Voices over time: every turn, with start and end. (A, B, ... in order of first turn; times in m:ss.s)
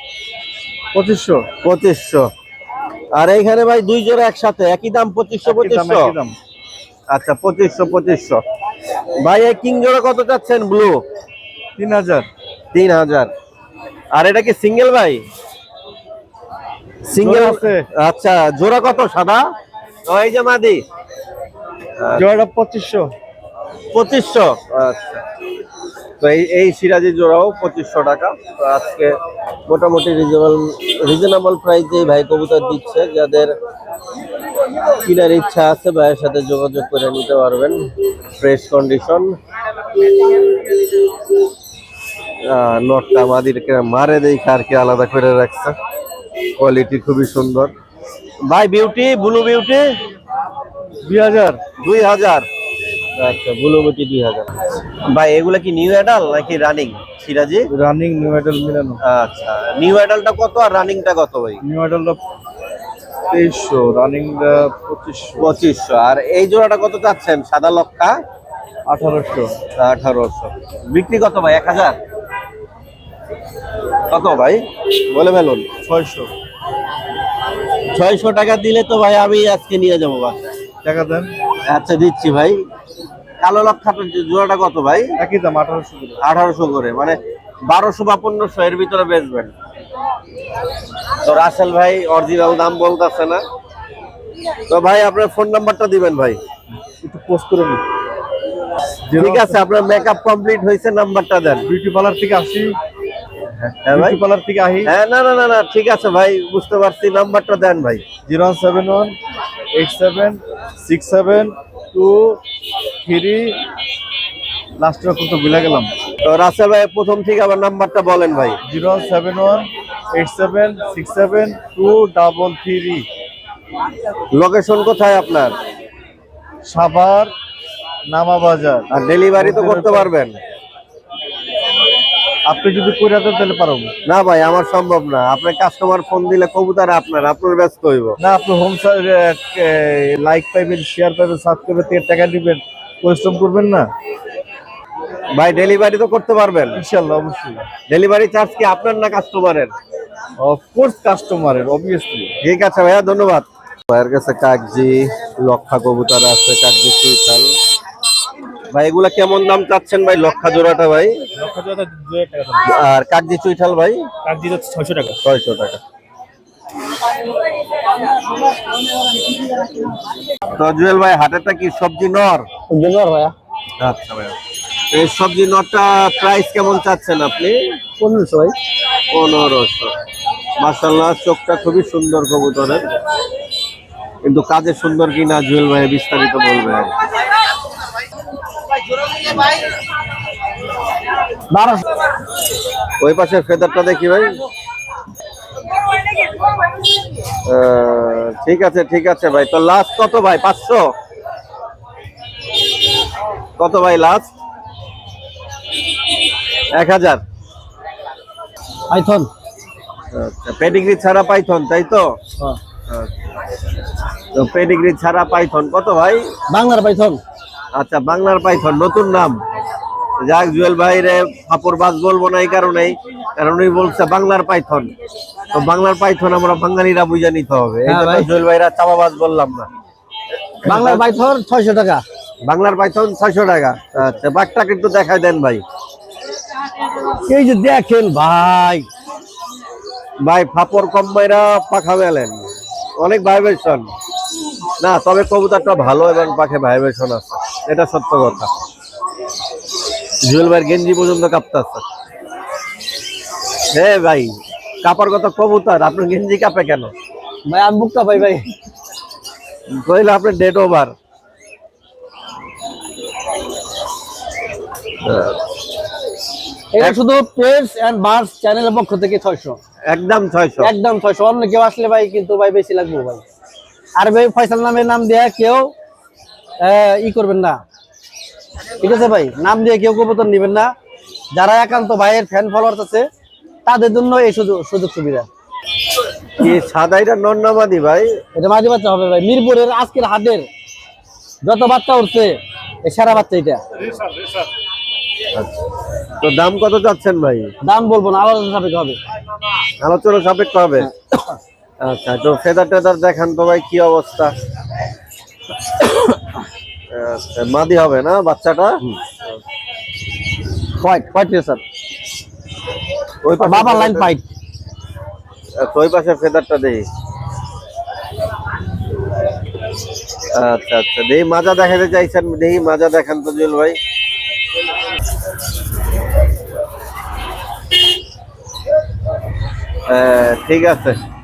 0:00.9-0:01.5 A
0:01.6-0:02.3 B
0:03.1-0:06.2 B
0:05.4-0:06.3 A
0:07.1-0:08.4 B
0:09.2-0:11.0 B
0:11.8-0:12.2 A
0:12.7-0:13.3 B
0:14.1-0:15.2 B
0:17.1-0:19.4 B
0:17.1-0:17.8 A
0:20.1-0:20.8 B
0:22.0-0:22.2 B
0:22.2-0:23.1 A
0:23.9-0:25.2 B
0:26.2-0:29.2 B
0:29.7-0:33.5 B
0:35.0-0:37.8 B
0:38.4-0:39.3 B
0:42.4-0:45.8 B
0:46.6-0:47.7 B
0:48.4-0:49.9 B
0:51.0-0:51.6 A
0:51.8-0:52.4 B
0:53.2-0:54.5 B
0:55.0-0:57.7 B
0:57.7-0:59.0 A
0:59.0-1:01.6 B
1:01.6-1:02.2 A
1:03.3-1:05.4 A
1:05.4-1:08.2 B
1:08.9-1:09.5 A
1:09.8-1:12.0 B
1:14.1-1:15.7 B
1:15.8-1:16.3 A
1:17.9-1:20.4 B
1:20.8-1:21.3 A
1:21.7-1:22.6 B
1:23.4-1:25.1 B
1:25.2-1:26.2 A
1:26.2-1:29.5 B
1:31.2-1:33.4 B
1:34.7-1:36.4 B
1:37.0-1:37.8 A
1:39.1-1:39.6 A
1:39.2-1:41.7 B
1:41.6-1:42.7 A
1:43.6-1:44.2 B
1:43.9-1:44.9 A
1:44.8-1:48.0 B
1:48.2-1:49.2 A
1:49.7-1:52.4 A
1:53.0-1:53.6 A
1:54.8-1:55.9 A
1:56.2-1:58.6 B
1:58.7-2:03.0 A
2:04.3-2:05.5 B
2:06.6-2:07.3 A
2:08.1-2:10.1 A
2:08.9-2:10.4 B
2:12.4-2:13.9 A
2:14.0-2:18.2 B
2:18.2-2:23.9 A
2:25.3-2:26.8 B
2:26.8-2:27.6 A
2:27.9-2:29.7 B
2:30.4-2:32.3 A
2:32.4-2:37.5 B
2:38.7-2:41.2 B
2:41.4-2:42.7 A
2:42.6-2:44.1 B
2:44.2-2:45.2 A
2:45.2-2:45.8 B
2:50.5-2:52.5 B
2:52.7-2:53.3 C
2:53.8-2:54.4 B
2:54.9-2:57.6 B
2:58.0-2:58.5 C
2:59.1-2:59.9 B
3:00.6-3:02.8 B
3:04.2-3:06.9 B
3:11.5-3:11.8 C
3:13.0-3:14.4 B
3:17.4-3:20.9 B
3:23.6-3:24.3 B
3:26.7-3:27.2 B
3:28.9-3:29.3 C
3:30.1-3:32.2 B
3:34.3-3:36.3 B
3:36.5-3:37.2 C
3:37.7-3:39.4 B
3:40.2-3:44.9 B
3:45.5-3:49.7 B
3:47.8-3:48.3 C
3:50.6-3:52.0 C
3:50.6-3:51.0 B
3:52.4-3:55.6 B
3:57.2-3:58.9 C
4:00.2-4:03.9 B
4:04.8-4:08.5 B
4:10.2-4:11.8 B
4:13.7-4:16.9 B
4:17.5-4:18.5 C
4:19.7-4:20.9 B
4:25.0-4:25.4 B
4:26.7-4:29.6 C
4:29.9-4:30.7 B
4:30.6-4:33.2 C
4:34.0-4:35.7 C
4:36.6-4:37.6 C
4:38.8-4:40.7 C
4:41.3-4:43.1 C
4:43.6-4:45.3 C
4:46.4-4:48.2 B
4:48.4-4:50.5 C
4:51.4-4:53.6 C
4:55.3-4:55.6 B
4:56.2-4:57.5 B
4:57.6-4:59.0 C
4:59.8-5:00.9 B
5:00.8-5:01.4 C
5:01.8-5:04.3 B
5:06.9-5:08.8 B
5:10.8-5:11.6 C
5:13.2-5:14.1 B
5:13.4-5:14.2 C
5:15.6-5:16.8 B
5:20.3-5:23.8 B
5:29.9-5:31.0 B